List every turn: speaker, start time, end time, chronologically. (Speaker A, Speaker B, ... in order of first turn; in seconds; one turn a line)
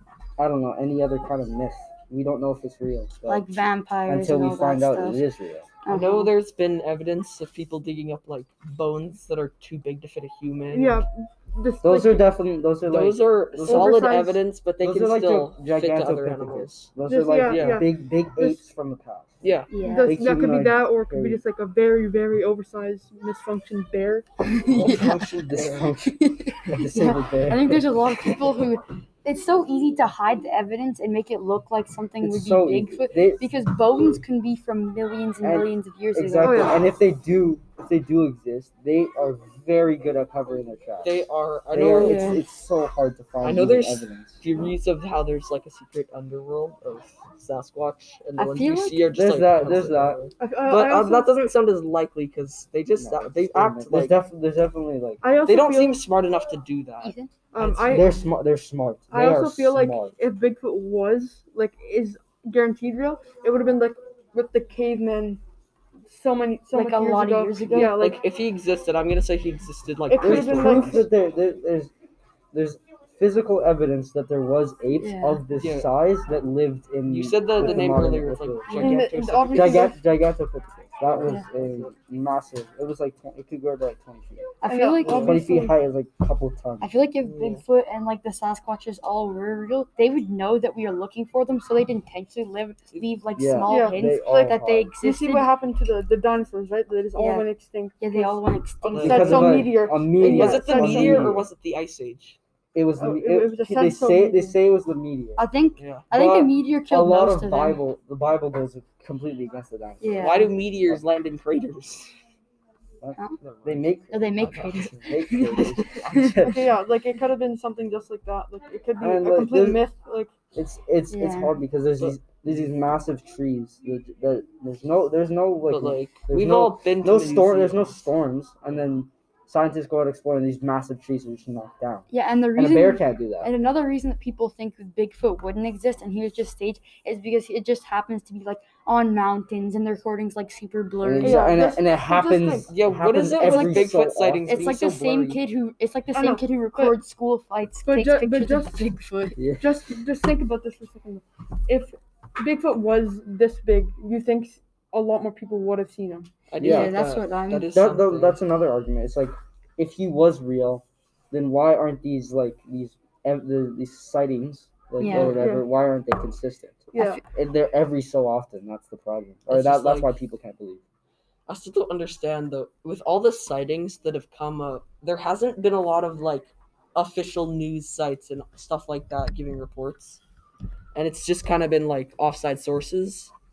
Speaker A: 0.4-3.5
Speaker B: 3.3-5.2
Speaker A: 4.1-5.7
Speaker B: 5.8-6.3
Speaker C: 5.9-11.0
Speaker D: 10.7-12.3
Speaker A: 11.8-14.0
Speaker C: 12.9-16.9
Speaker D: 13.6-14.4
Speaker A: 14.8-19.4
Speaker D: 17.1-18.6
Speaker C: 17.5-17.8
Speaker C: 19.4-19.7
Speaker B: 19.7-20.1
Speaker D: 19.8-24.2
Speaker A: 20.0-21.4
Speaker B: 24.5-36.7
Speaker C: 24.7-25.9
Speaker A: 24.9-27.9
Speaker A: 32.2-34.2
Speaker A: 35.4-44.4
Speaker D: 36.4-36.8
Speaker C: 41.0-42.4
Speaker D: 42.0-42.4
Speaker C: 43.4-54.2
Speaker B: 48.4-49.1
Speaker A: 49.1-50.2
Speaker D: 50.4-51.4
Speaker A: 53.0-55.2
Speaker D: 55.2-56.0
Speaker C: 55.5-58.0
Speaker B: 57.0-57.3
Speaker D: 57.5-58.2
Speaker A: 57.9-60.2
Speaker D: 59.1-65.4
Speaker D: 66.1-68.2
Speaker B: 66.7-67.9
Speaker C: 67.8-71.1
Speaker D: 70.1-71.1
Speaker A: 70.2-71.9
Speaker A: 72.5-78.9
Speaker B: 75.0-75.4
Speaker C: 75.6-75.9
Speaker C: 77.1-79.9
Speaker B: 78.7-79.0
Speaker D: 78.7-80.0
Speaker A: 79.5-84.5
Speaker B: 81.2-81.5
Speaker B: 84.6-85.5
Speaker D: 84.6-85.8
Speaker A: 85.0-86.9
Speaker B: 86.8-95.5
Speaker C: 87.2-87.6
Speaker A: 93.3-94.9
Speaker D: 93.7-101.3
Speaker B: 97.2-97.5
Speaker B: 98.0-99.7
Speaker C: 98.9-99.2
Speaker A: 99.0-101.4
Speaker C: 100.2-102.4
Speaker A: 102.7-105.4
Speaker D: 103.0-104.5
Speaker B: 105.3-107.8
Speaker C: 105.8-106.1
Speaker A: 106.1-111.0
Speaker B: 110.0-110.4
Speaker C: 110.2-112.1
Speaker A: 113.0-114.3
Speaker C: 113.4-115.0
Speaker B: 114.1-116.6
Speaker A: 114.9-116.6
Speaker D: 116.4-120.3
Speaker A: 119.0-119.8
Speaker A: 120.5-133.5
Speaker B: 121.1-121.6
Speaker C: 125.7-128.0
Speaker B: 132.1-141.7
Speaker A: 141.0-145.4
Speaker D: 141.2-142.7
Speaker C: 142.7-144.8
Speaker B: 143.4-143.9
Speaker B: 144.4-149.4
Speaker D: 146.1-146.9
Speaker D: 147.8-156.3
Speaker A: 149.4-149.7
Speaker C: 156.5-158.4
Speaker A: 156.6-156.9
Speaker B: 156.6-157.8
Speaker A: 157.7-170.8
Speaker B: 165.0-165.4
Speaker C: 165.1-165.4
Speaker D: 165.3-165.6
Speaker B: 166.9-167.2
Speaker D: 166.9-167.2
Speaker C: 169.5-170.1
Speaker C: 171.5-180.2
Speaker C: 180.9-183.3